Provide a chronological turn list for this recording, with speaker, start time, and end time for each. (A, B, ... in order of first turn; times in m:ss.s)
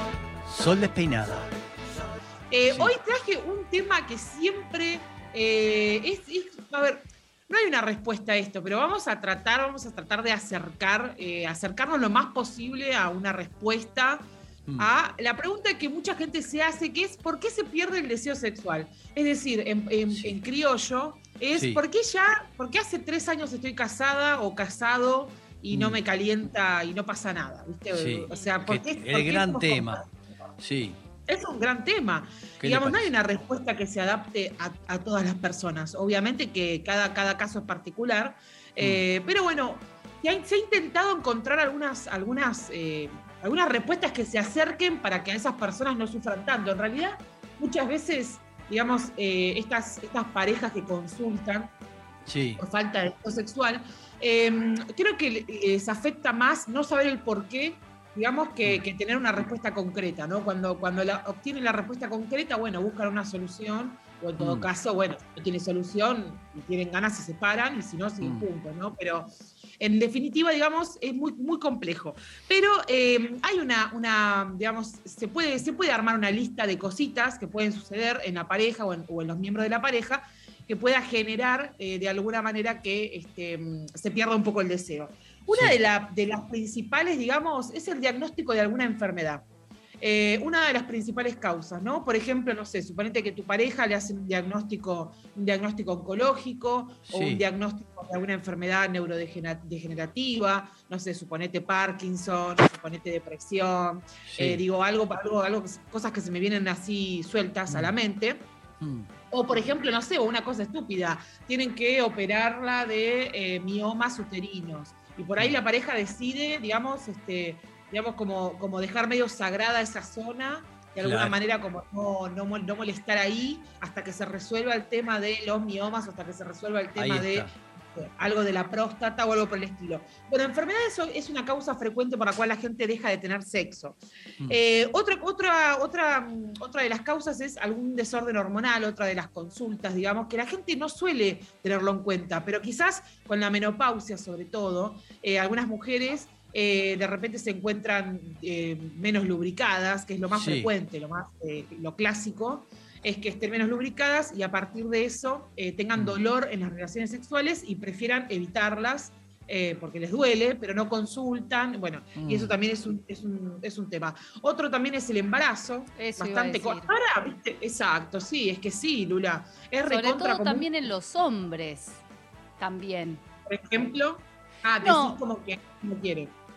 0:00.4-0:01.5 A
0:02.5-0:14.2 B
0:02.7-0:03.0 A
0:14.8-0:30.1 B
0:20.1-0:20.4 A
0:21.5-0:21.8 A
0:25.7-0:26.0 A
0:27.9-0:30.0 A
0:28.3-0:28.5 C
0:30.6-0:31.0 A
0:31.3-0:51.7 B
0:32.6-0:33.1 A
0:38.8-0:39.0 A
0:52.3-0:52.6 A
0:52.6-1:29.4 B
1:04.4-1:04.7 A
1:08.2-1:08.5 A
1:25.5-1:25.8 A
1:30.0-1:48.5 B
1:37.1-1:37.4 A
1:44.3-1:44.6 A
1:47.7-1:48.0 A
1:48.8-1:49.1 A
1:49.3-2:50.7 B
2:01.0-2:01.4 A
2:07.0-2:07.5 A
2:30.3-2:30.7 A
2:35.9-2:36.2 A
2:42.2-2:42.6 A
2:46.0-2:46.9 C
2:49.8-2:52.0 C
2:52.6-2:53.2 C
2:53.5-2:56.3 B
2:54.8-2:55.2 C